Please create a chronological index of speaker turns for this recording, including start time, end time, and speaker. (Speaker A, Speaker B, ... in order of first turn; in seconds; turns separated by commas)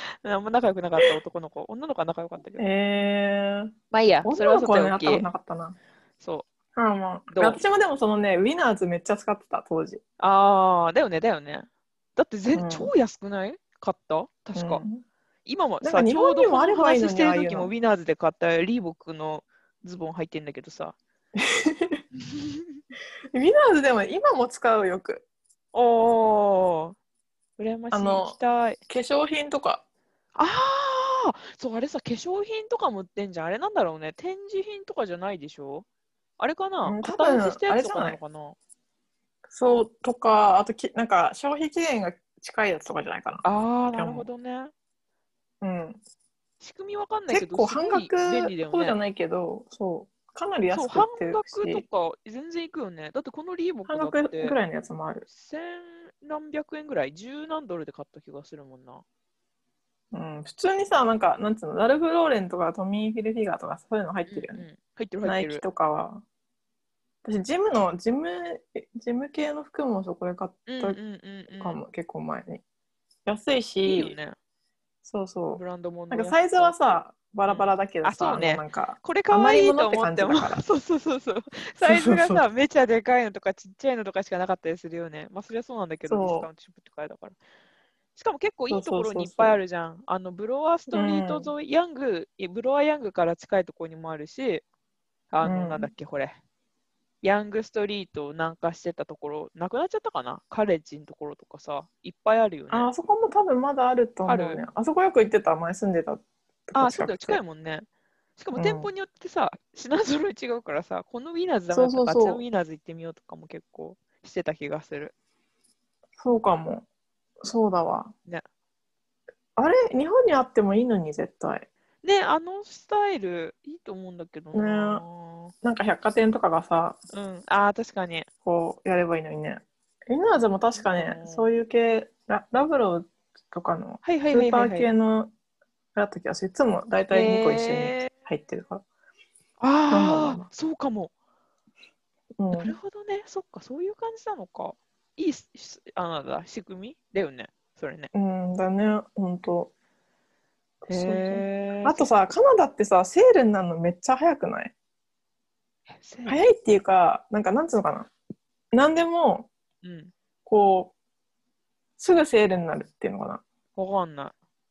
Speaker A: 0.2-2.6, Speaker B: 2.6-3.7, Speaker A: 3.9-5.3, Speaker B: 4.2-5.8, Speaker A: 6.2-6.5, Speaker B: 6.8-10.0, Speaker A: 7.3-7.6, Speaker A: 10.2-14.8, Speaker B: 12.6-12.9, Speaker B: 14.6-15.0, Speaker A: 15.4-21.0, Speaker B: 15.8-17.7, Speaker B: 21.4-22.0, Speaker A: 22.3-22.6, Speaker B: 23.3-25.2, Speaker A: 25.7-27.0, Speaker A: 27.6-28.8, Speaker B: 27.9-28.4, Speaker B: 28.9-29.8, Speaker A: 30.4-35.9, Speaker A: 36.4-38.6, Speaker B: 36.9-38.2, Speaker B: 39.5-44.3, Speaker A: 43.4-44.7, Speaker B: 45.6-46.0, Speaker A: 46.6-49.0, Speaker B: 47.3-51.9, Speaker A: 50.7-54.6, Speaker B: 53.9-55.2, Speaker A: 55.3-59.0, Speaker B: 60.1-64.7, Speaker A: 64.3-65.7, Speaker B: 65.2-66.2, Speaker B: 67.2-71.0, Speaker A: 70.7-71.8, Speaker B: 71.6-72.6, Speaker B: 73.3-74.2, Speaker A: 73.8-74.4, Speaker B: 75.0-80.6, Speaker A: 75.5-76.8, Speaker A: 77.5-87.4, Speaker B: 81.8-82.4, Speaker B: 86.1-86.5, Speaker A: 88.2-94.7, Speaker B: 88.7-89.6, Speaker B: 90.9-91.5, Speaker A: 95.3-96.4, Speaker B: 95.4-95.9, Speaker A: 97.2-102.9, Speaker B: 102.7-107.4, Speaker A: 104.3-104.6, Speaker A: 106.8-107.9, Speaker A: 108.4-115.1, Speaker B: 108.6-108.9, Speaker B: 111.7-112.4, Speaker B: 116.2-116.9, Speaker B: 117.4-118.1, Speaker B: 119.6-121.7, Speaker A: 122.0-125.5, Speaker B: 124.5-125.0, Speaker B: 125.6-127.0, Speaker A: 127.1-128.3, Speaker B: 128.4-135.3, Speaker A: 130.8-131.5, Speaker A: 134.0-134.9, Speaker B: 135.9-138.8, Speaker A: 137.1-138.1, Speaker A: 139.6-141.1, Speaker B: 139.9-140.5, Speaker B: 142.4-142.8, Speaker A: 142.5-148.1, Speaker B: 148.1-149.7, Speaker B: 150.8-154.7, Speaker A: 150.9-152.1, Speaker A: 156.0-156.4, Speaker B: 156.3-158.1, Speaker B: 158.7-159.5, Speaker A: 159.8-160.1, Speaker B: 160.5-160.9, Speaker B: 162.0-163.4, Speaker A: 163.8-164.3